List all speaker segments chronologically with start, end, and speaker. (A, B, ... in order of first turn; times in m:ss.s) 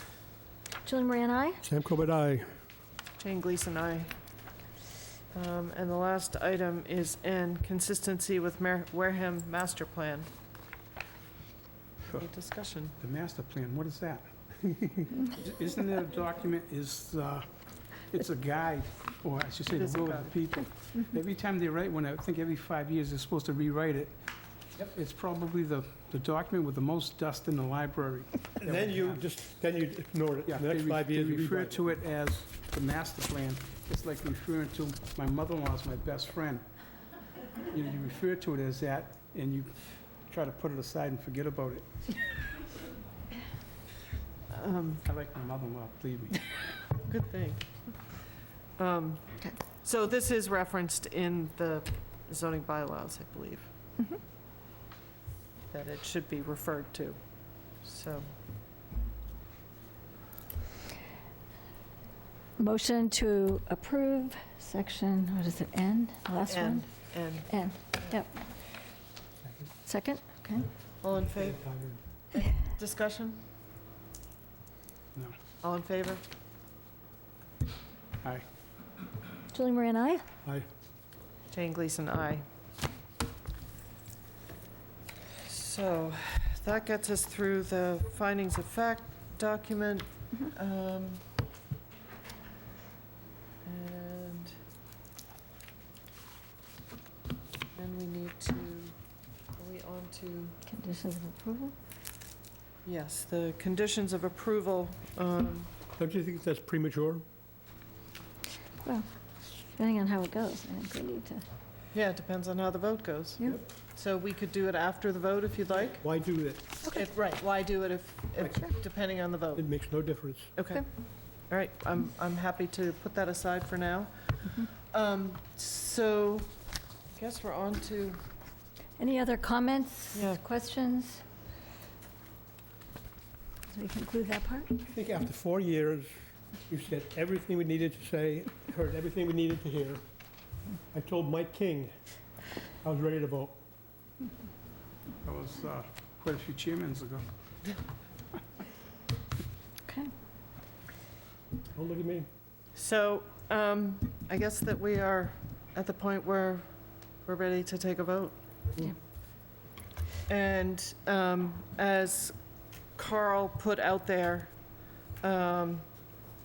0:00.8-0:01.6 A
0:01.6-0:02.5 B
0:03.2-0:04.1 C
0:05.3-0:10.3 C
0:12.1-0:13.0 C
0:13.0-0:17.5 D
0:18.0-0:24.2 D
0:19.7-0:20.3 C
0:24.8-0:29.2 D
0:28.6-0:31.8 B
0:30.5-0:36.6 D
0:37.7-0:39.7 D
0:40.3-0:41.9 D
0:44.5-0:45.0 C
0:45.0-0:46.6 D
0:47.0-0:47.8 C
0:48.8-0:53.7 C
0:55.7-0:57.2 C
0:57.8-0:58.3 C
1:02.6-1:06.8 A
1:06.4-1:08.1 C
1:07.5-1:08.3 A
1:09.8-1:10.7 A
1:11.0-1:11.7 C
1:11.4-1:12.0 B
1:12.3-1:13.4 C
1:15.6-1:16.2 C
1:19.5-1:20.2 A
1:21.5-1:22.4 C
1:25.4-1:31.2 C
1:33.6-1:34.6 C
1:37.7-1:39.0 C
1:39.6-1:40.6 C
1:40.6-1:41.7 A
1:42.8-1:45.7 C
1:46.0-1:47.2 B
1:48.8-1:49.1 A
1:49.7-1:51.4 A
1:51.9-1:56.0 C
1:56.0-1:56.6 B
1:56.8-1:59.6 C
1:59.5-2:00.5 B
2:00.5-2:00.8 C
2:01.5-2:06.5 C
2:07.1-2:08.2 C
2:09.0-2:11.2 A
2:10.1-2:10.4 C
2:13.7-2:14.8 A
2:14.9-2:16.1 B
2:16.7-2:20.0 B
2:20.9-2:21.9 B
2:22.8-2:23.6 B
2:25.2-2:27.2 D
2:29.8-2:30.1 A
2:31.7-2:32.3 B
2:32.7-2:36.7 C
2:37.2-2:38.4 C
2:40.3-2:42.4 C
2:43.0-2:44.5 C
2:45.2-2:45.8 C